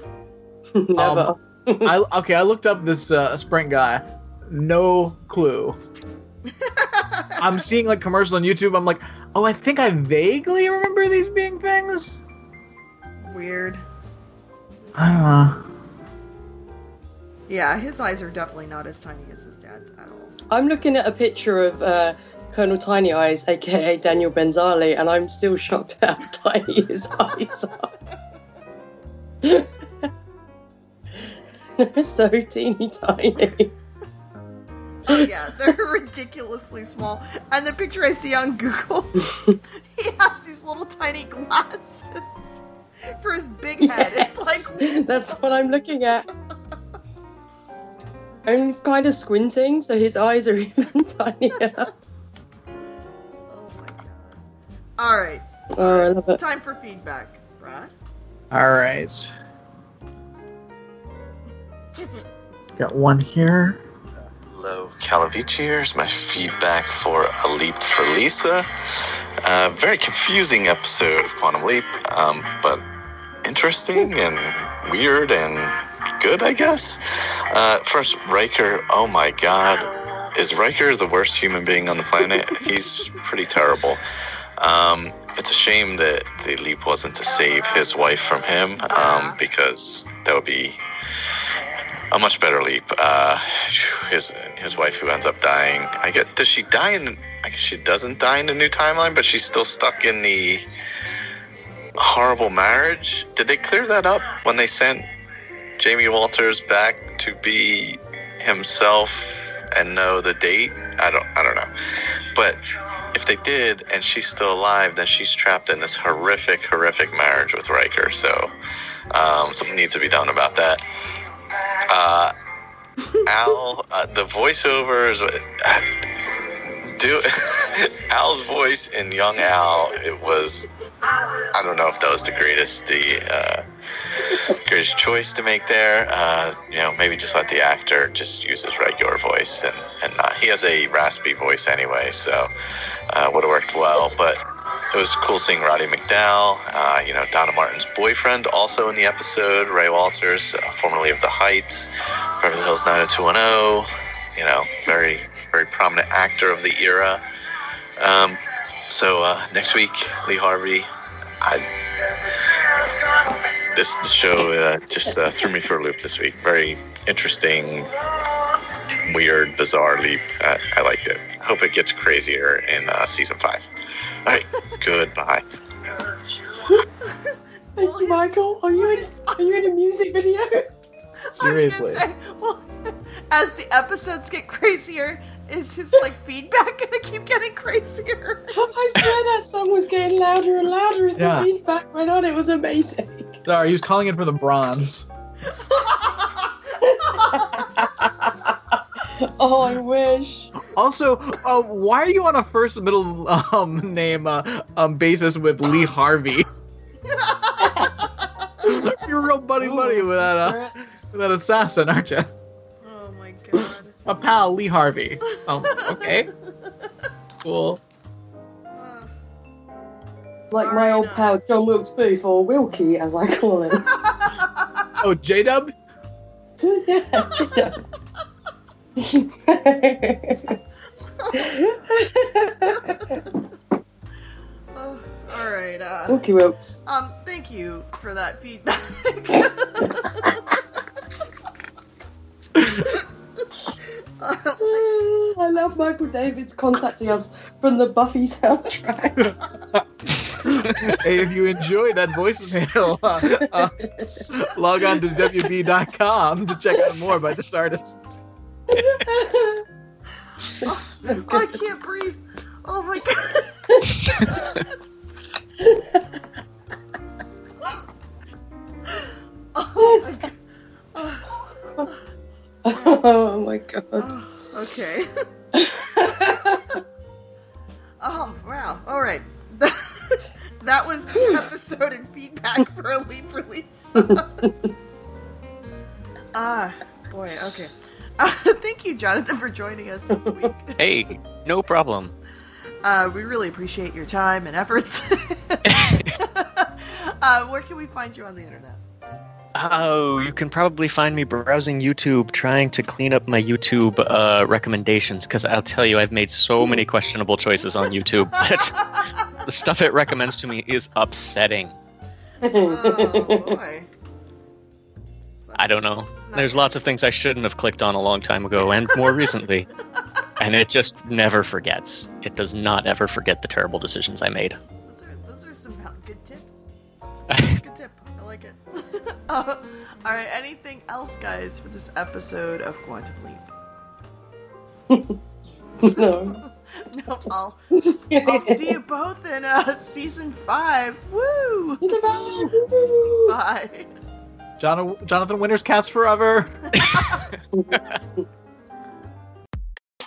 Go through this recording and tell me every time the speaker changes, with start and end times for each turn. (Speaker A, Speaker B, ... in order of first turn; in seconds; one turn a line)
Speaker A: 0.7-1.9
Speaker B: 0.9-5.8
Speaker C: 6.5-7.5
Speaker B: 7.4-12.2
Speaker C: 13.2-13.8
Speaker B: 14.9-15.6
Speaker C: 17.5-20.3
Speaker A: 20.5-27.9
Speaker A: 29.4-29.7
Speaker A: 31.8-33.7
Speaker C: 35.0-39.3
Speaker A: 39.3-39.6
Speaker C: 39.9-45.0
Speaker A: 43.8-46.3
Speaker A: 48.5-51.9
Speaker C: 53.5-54.4
Speaker C: 55.0-57.9
Speaker A: 55.7-56.4
Speaker B: 58.5-59.4
Speaker B: 62.8-63.8
Speaker D: 64.5-68.7
Speaker D: 69.4-72.8
Speaker D: 73.4-84.0
Speaker D: 84.6-90.8
Speaker C: 88.8-89.4
Speaker D: 92.1-100.7
Speaker D: 102.0-105.1
Speaker D: 105.8-111.7
Speaker D: 112.3-118.5
Speaker D: 119.1-120.8
Speaker D: 121.9-122.3
Speaker D: 123.2-126.0
Speaker D: 126.9-130.7
Speaker D: 131.5-133.6
Speaker D: 134.4-142.5
Speaker D: 143.1-157.2
Speaker D: 158.0-160.9
Speaker D: 161.4-173.7
Speaker D: 174.2-175.4
Speaker C: 177.8-179.4
Speaker A: 177.8-180.7
Speaker C: 181.2-182.6
Speaker B: 181.3-182.0
Speaker C: 183.3-188.6
Speaker A: 188.5-193.4
Speaker B: 191.2-191.5
Speaker B: 193.4-195.1
Speaker C: 195.7-196.4
Speaker A: 196.8-198.5
Speaker C: 197.1-197.4
Speaker A: 199.1-200.5
Speaker B: 200.6-206.5
Speaker C: 207.1-207.9
Speaker A: 207.6-207.9
Speaker B: 208.6-212.3
Speaker A: 209.6-210.7
Speaker C: 212.8-214.0
Speaker B: 214.1-216.3
Speaker C: 215.5-216.2
Speaker B: 217.4-217.8
Speaker C: 218.8-219.1
Speaker A: 220.5-223.9
Speaker C: 220.6-221.3
Speaker C: 223.9-224.2
Speaker B: 225.0-225.7
Speaker A: 226.6-227.8
Speaker A: 229.0-230.6
Speaker C: 231.2-231.9
Speaker A: 231.3-233.2
Speaker C: 232.6-233.2
Speaker C: 234.7-236.2
Speaker A: 236.1-236.8
Speaker C: 236.8-240.4
Speaker C: 244.2-245.1
Speaker A: 244.6-249.4
Speaker B: 250.3-258.1
Speaker A: 253.2-254.2
Speaker A: 258.7-259.6
Speaker A: 260.6-261.6
Speaker C: 260.6-264.6
Speaker A: 265.6-266.0
Speaker C: 268.9-270.3
Speaker A: 269.8-270.1
Speaker C: 270.9-271.3
Speaker A: 272.6-274.1
Speaker C: 272.7-273.0
Speaker C: 274.0-275.1
Speaker A: 275.5-276.8
Speaker C: 278.0-284.3
Speaker A: 284.0-284.7
Speaker C: 286.3-290.8
Speaker E: 290.8-292.1
Speaker C: 292.8-298.8
Speaker E: 295.7-296.2
Speaker E: 299.5-311.7
Speaker A: 312.4-313.6
Speaker C: 312.6-313.9
Speaker C: 315.5-316.9
Speaker E: 315.6-319.7
Speaker E: 320.4-324.6
Speaker C: 324.8-326.6
Speaker C: 327.3-333.5
Speaker E: 327.3-327.6
Speaker A: 334.9-335.2
Speaker A: 335.8-336.4
Speaker C: 335.9-341.9
Speaker A: 337.8-338.7
Speaker A: 341.8-343.3
Speaker C: 342.5-343.9
Speaker B: 344.6-346.5
Speaker E: 346.8-347.9
Speaker A: 347.5-348.2